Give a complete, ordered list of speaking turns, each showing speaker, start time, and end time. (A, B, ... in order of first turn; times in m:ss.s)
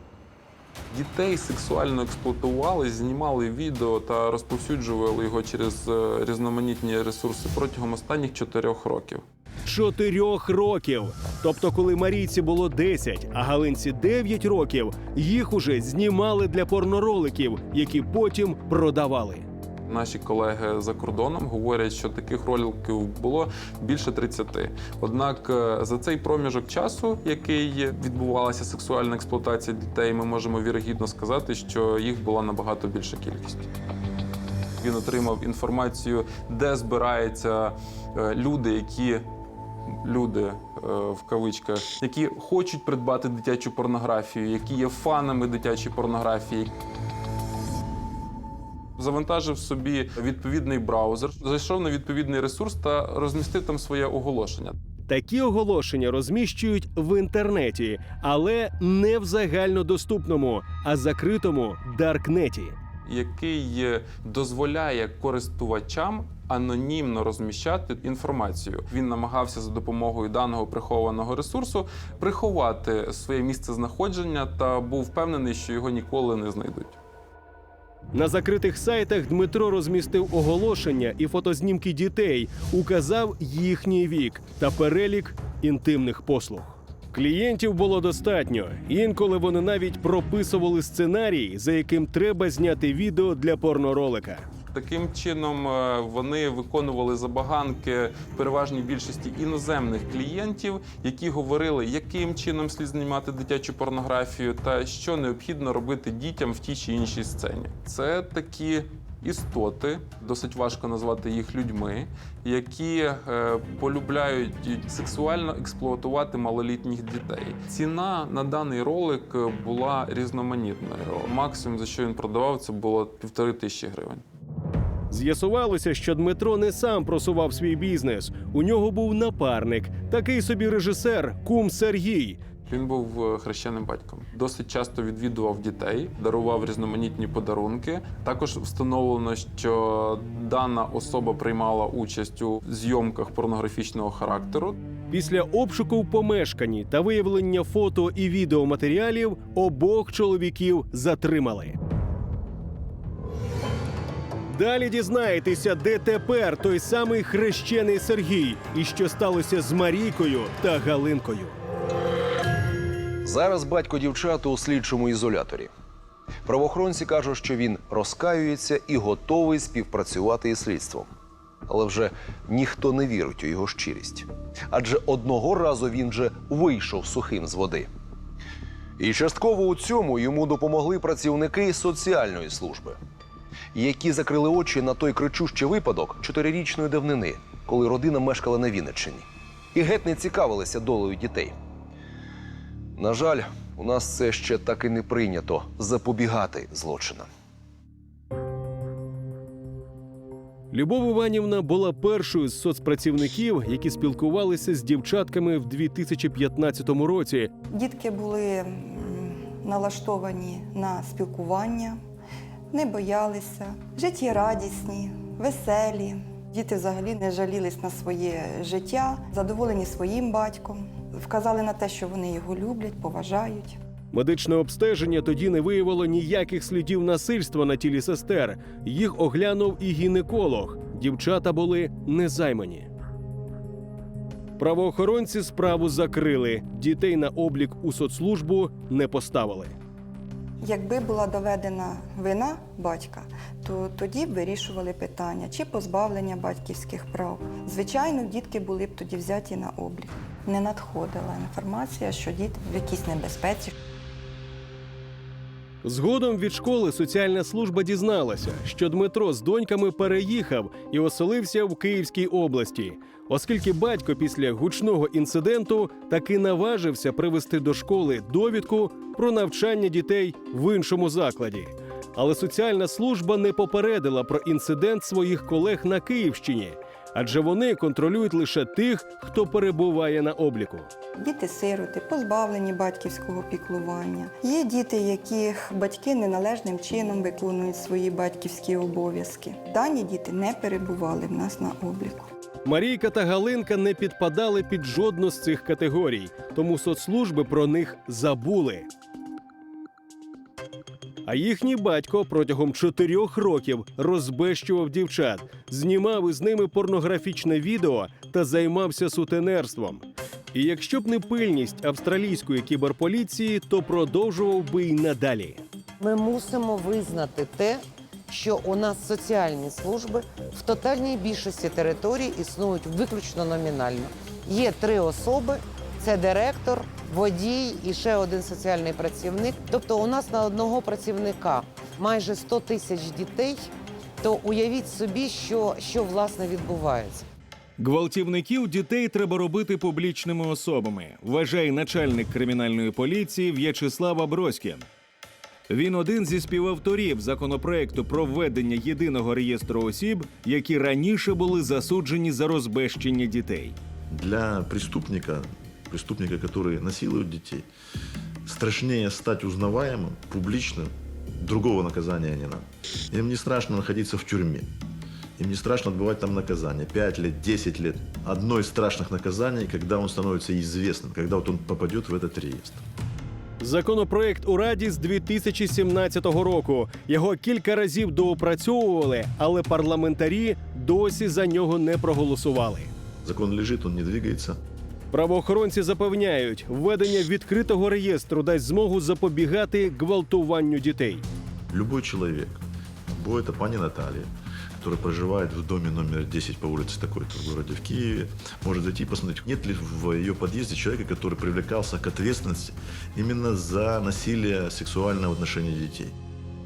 0:00.9-0:09.2 A
0:09.6-0:19.5 B
0:19.9-0:33.7 A
0:34.8-0:39.3 A
0:40.0-0:46.7 A
0:49.0-0:54.8 A
0:55.1-1:02.8 B
1:03.0-1:17.0 A
1:18.1-1:34.4 B
1:34.7-2:04.2 A
2:05.1-2:12.4 B
2:12.7-2:24.8 A
2:25.1-2:31.8 B
2:34.5-2:41.6 B
2:43.2-2:45.7 C
2:46.4-2:51.1 C
2:51.7-2:57.9 C
2:59.0-3:03.0 C
3:03.7-3:11.5 C
3:13.0-3:17.3 C
3:20.7-3:27.5 B
3:27.7-3:32.0 D
3:32.7-3:43.8 D
3:44.1-3:52.9 B
3:54.6-3:59.8 B
4:00.6-4:13.7 D
4:15.8-4:40.9 B
4:41.2-4:52.3 D
4:52.6-4:58.9 B
5:01.2-5:15.6 B
5:16.0-5:37.2 E
5:37.8-5:44.8 F
5:45.7-5:53.8 F
5:54.1-5:57.7 G
5:58.4-6:04.7 G
6:05.4-6:12.8 G
6:13.6-6:22.9 B
6:23.2-6:24.6 G
6:25.1-6:31.2 B
6:31.7-6:46.2 G